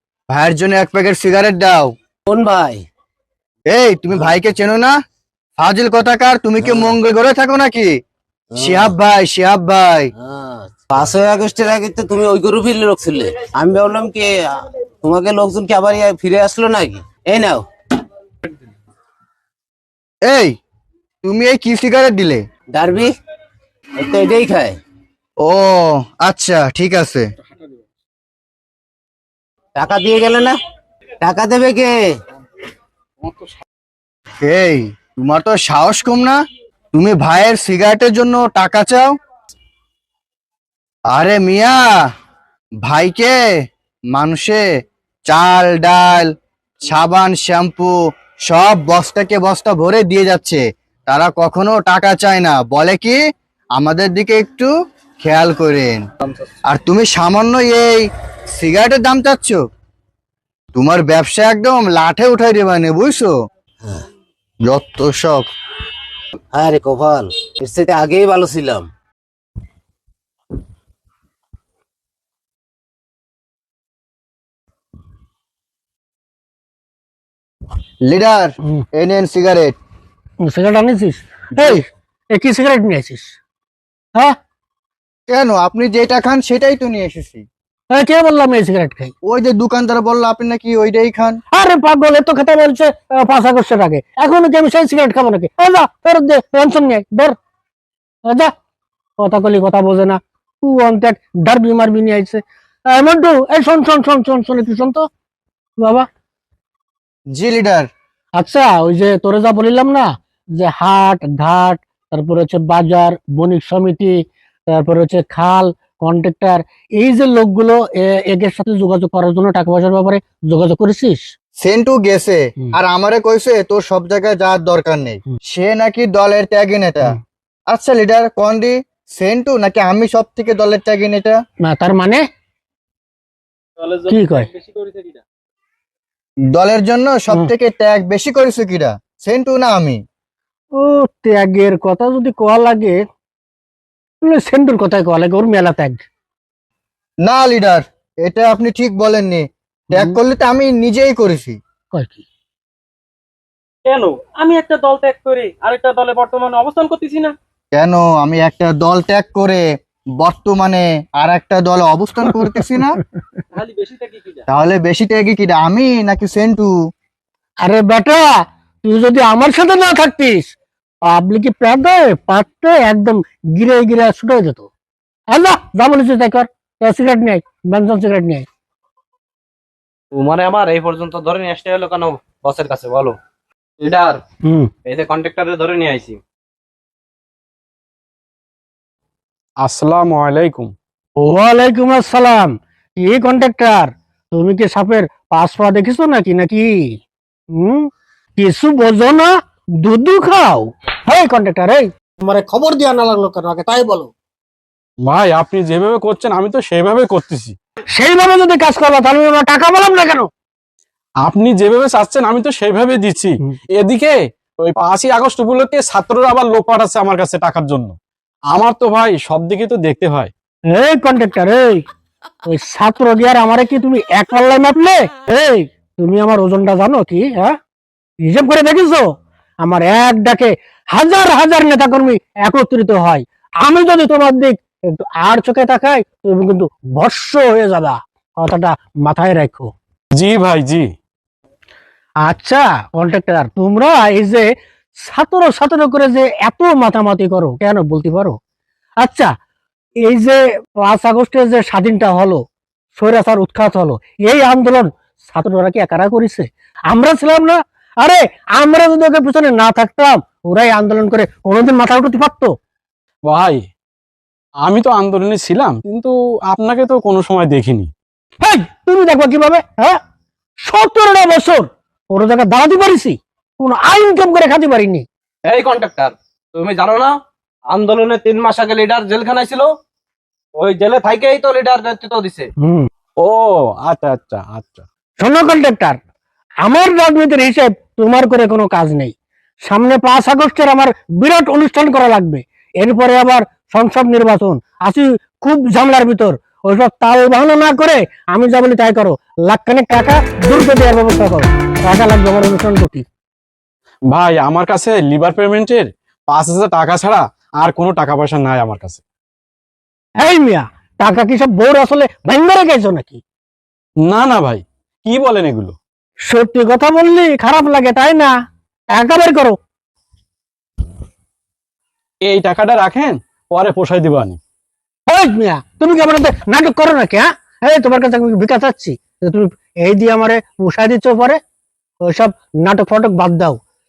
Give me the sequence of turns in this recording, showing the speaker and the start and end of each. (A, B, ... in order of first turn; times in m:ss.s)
0:00.3-0:01.9 A
0:02.3-0:02.8 B
0:03.7-0:04.9 A
0:05.6-0:08.0 A
0:06.6-0:07.0 B
0:08.5-0:08.9 B
0:08.6-0:10.1 A
0:10.2-0:17.6 B
0:20.2-0:20.6 A
0:21.2-0:22.4 A
0:22.7-0:23.2 B
0:24.0-0:24.8 B
0:25.4-0:27.2 A
0:29.8-0:30.6 B
0:31.2-0:32.1 B
0:34.4-0:36.4 A
0:36.9-0:39.1 A
0:41.1-0:41.8 A
0:42.8-0:43.4 A
0:44.1-0:44.6 A
0:45.3-0:46.3 A
0:46.8-0:47.9 A
0:48.5-0:53.2 A
0:53.8-0:54.7 A
0:55.2-0:56.0 A
0:56.7-0:59.6 A
1:00.7-1:03.3 A
1:04.6-1:05.5 A
1:06.5-1:08.9 B
1:18.0-1:19.8 A
1:20.4-1:23.4 C
1:25.3-1:27.4 A
1:27.9-1:29.1 C
1:29.2-1:31.4 A
1:31.5-1:37.3 C
1:38.2-1:38.5 C
1:39.2-1:45.0 C
1:45.8-1:46.0 C
1:47.3-1:47.9 A
1:48.4-1:54.2 C
1:54.7-2:01.2 C
2:01.6-2:07.2 A
2:07.7-2:11.4 A
2:11.6-2:12.2 C
2:13.8-2:15.2 D
2:14.1-2:14.5 C
2:16.5-2:20.0 A
2:20.7-2:23.0 C
2:24.2-2:26.0 C
2:27.2-2:31.6 A
2:31.9-2:32.2 C
2:33.9-2:37.3 D
2:37.7-2:39.6 A
2:40.2-2:43.0 A
2:43.5-2:44.4 D
2:44.5-2:46.7 A
2:47.6-2:48.3 C
2:48.8-2:50.5 C
2:51.1-2:54.7 C
2:55.3-2:58.4 C
3:00.1-3:03.2 D
3:03.8-3:04.2 D
3:04.8-3:06.2 D
3:09.6-3:10.7 E
3:11.2-3:17.0 C
3:17.5-3:24.1 C
3:25.0-3:27.5 E
3:27.9-3:30.3 C
3:31.2-3:38.0 E
3:38.5-3:40.3 E
3:40.7-3:41.8 C
3:42.4-3:47.6 C
3:48.2-3:49.1 C
3:49.6-3:59.7 C
4:00.1-4:00.8 E
4:02.2-4:04.4 C
4:05.0-4:08.4 C
4:09.0-4:09.3 C
4:10.0-4:12.4 C
4:12.9-4:22.5 C
4:23.2-4:23.6 E
4:24.6-4:27.9 E
4:28.4-4:30.0 C
4:30.6-4:35.0 C
4:35.4-4:37.1 D
4:37.7-4:39.7 D
4:40.6-4:42.5 D
4:42.6-4:42.9 C
4:43.2-4:44.8 E
4:45.2-4:46.0 C
4:46.6-5:03.0 C
5:04.1-5:09.0 E
5:10.2-5:13.2 C
5:14.0-5:15.8 E
5:16.2-5:18.3 C
5:18.9-5:19.6 C
5:22.2-5:24.4 E
5:25.1-5:31.4 C
5:32.0-5:33.6 C